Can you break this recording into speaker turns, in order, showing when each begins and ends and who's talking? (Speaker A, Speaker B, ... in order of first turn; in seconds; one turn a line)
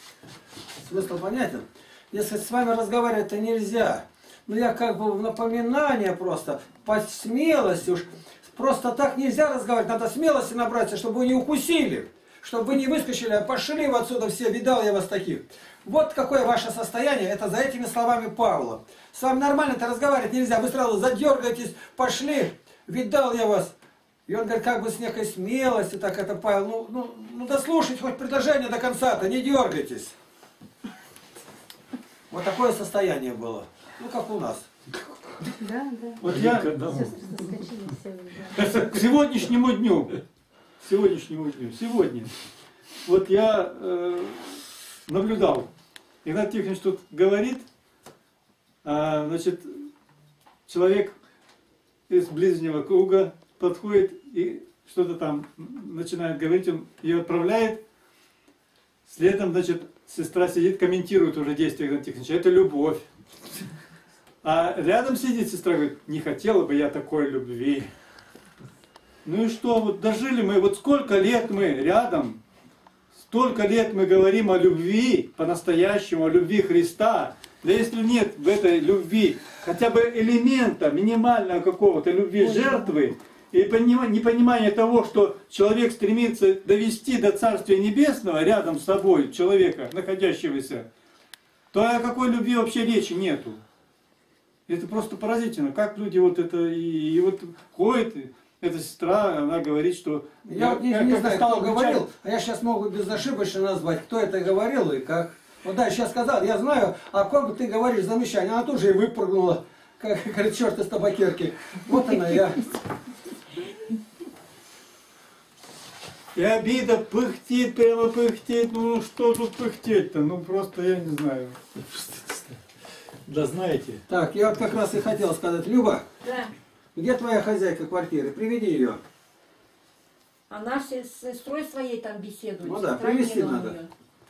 Speaker A: 0.8-23.7
Speaker A: 24.3-30.1
Speaker A: 32.3-34.6
Speaker B: 35.6-36.2
Speaker C: 36.2-37.1
Speaker D: 36.2-37.2
Speaker B: 36.9-38.5
Speaker D: 38.5-39.0
Speaker C: 38.5-40.2
Speaker C: 40.8-42.3
Speaker C: 43.0-45.7
Speaker C: 46.2-47.6
Speaker C: 48.8-49.9
Speaker C: 50.7-51.1
Speaker C: 52.1-57.8
Speaker C: 59.1-63.0
Speaker C: 64.4-67.9
Speaker C: 69.2-72.4
Speaker C: 73.3-90.9
Speaker B: 82.4-82.8
Speaker C: 91.7-93.6
Speaker C: 94.7-102.0
Speaker A: 100.5-112.7
Speaker C: 116.3-121.6
Speaker D: 121.8-122.5
Speaker D: 123.3-124.0
Speaker A: 124.1-126.1
Speaker E: 126.2-126.5
Speaker A: 126.9-129.0
Speaker E: 130.5-133.9
Speaker A: 132.6-133.8